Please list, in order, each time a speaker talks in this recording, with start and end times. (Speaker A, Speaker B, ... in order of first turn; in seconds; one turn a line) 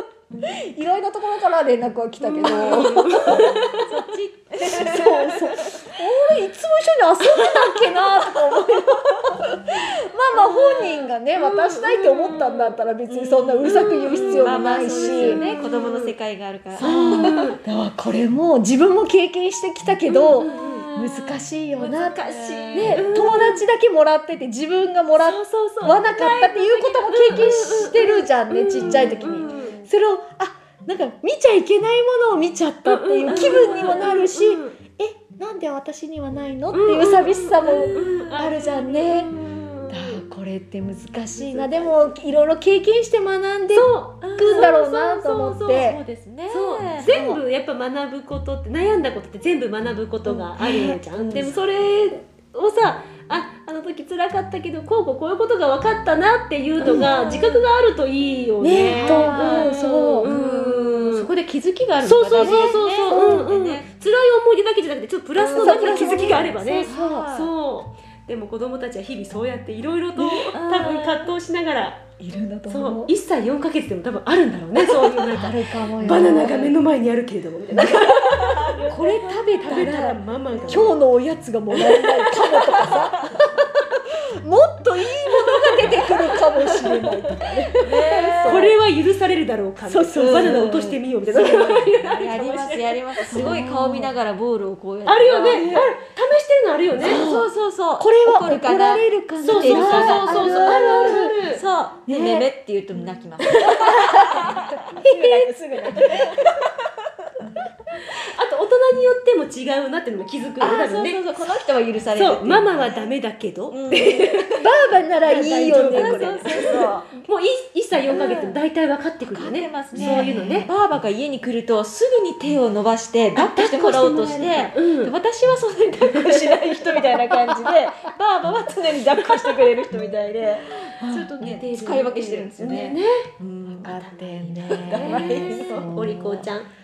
Speaker A: 0.4-3.6
Speaker B: 2.3-3.9
Speaker C: 2.4-5.6
Speaker A: 4.6-15.4
Speaker C: 10.3-11.1
Speaker B: 11.3-12.8
Speaker C: 13.1-17.5
Speaker B: 13.6-16.1
Speaker A: 16.8-22.2
Speaker B: 16.8-17.6
Speaker C: 20.1-21.4
Speaker B: 20.4-20.9
Speaker B: 21.8-23.6
Speaker C: 22.0-23.0
Speaker A: 22.7-39.3
Speaker B: 25.1-29.8
Speaker C: 28.8-29.9
Speaker B: 32.8-34.8
Speaker C: 33.3-34.2
Speaker B: 36.7-40.2
Speaker C: 37.6-38.2
Speaker A: 39.9-46.0
Speaker B: 41.3-42.1
Speaker B: 43.7-45.9
Speaker C: 44.2-44.7
Speaker C: 45.8-47.1
Speaker B: 46.5-61.3
Speaker A: 47.0-47.4
Speaker A: 50.3-51.5
Speaker C: 51.1-51.5
Speaker C: 56.8-57.6
Speaker A: 56.8-57.1
Speaker C: 58.6-63.9
Speaker A: 58.8-60.3
Speaker B: 62.0-72.0
Speaker A: 62.4-63.5
Speaker C: 65.4-67.5
Speaker A: 65.4-67.3
Speaker C: 70.2-71.3
Speaker A: 72.2-73.1
Speaker B: 72.7-81.0
Speaker A: 74.8-76.8
Speaker C: 78.2-79.8
Speaker A: 78.8-83.2
Speaker A: 84.4-88.8
Speaker B: 85.8-86.4
Speaker C: 87.8-88.7
Speaker B: 88.4-93.6
Speaker A: 89.8-91.9
Speaker C: 90.2-91.0
Speaker C: 91.9-95.9
Speaker A: 93.3-94.1
Speaker B: 95.0-97.2
Speaker A: 95.5-95.9
Speaker A: 97.0-101.4
Speaker C: 97.0-104.8
Speaker B: 99.4-101.6
Speaker A: 102.1-102.5
Speaker A: 103.6-106.5
Speaker C: 105.3-106.0
Speaker B: 108.0-111.2
Speaker C: 110.6-113.1
Speaker B: 112.1-114.5
Speaker C: 113.7-114.7
Speaker A: 114.6-116.6
Speaker C: 115.2-117.1
Speaker B: 115.2-120.7
Speaker C: 118.1-118.6
Speaker C: 119.2-134.0
Speaker A: 119.9-120.5
Speaker B: 123.3-125.1
Speaker A: 126.5-127.8
Speaker A: 129.3-129.7
Speaker A: 131.0-131.3
Speaker B: 131.0-133.3
Speaker A: 133.7-136.5
Speaker B: 133.8-136.7
Speaker C: 134.7-135.9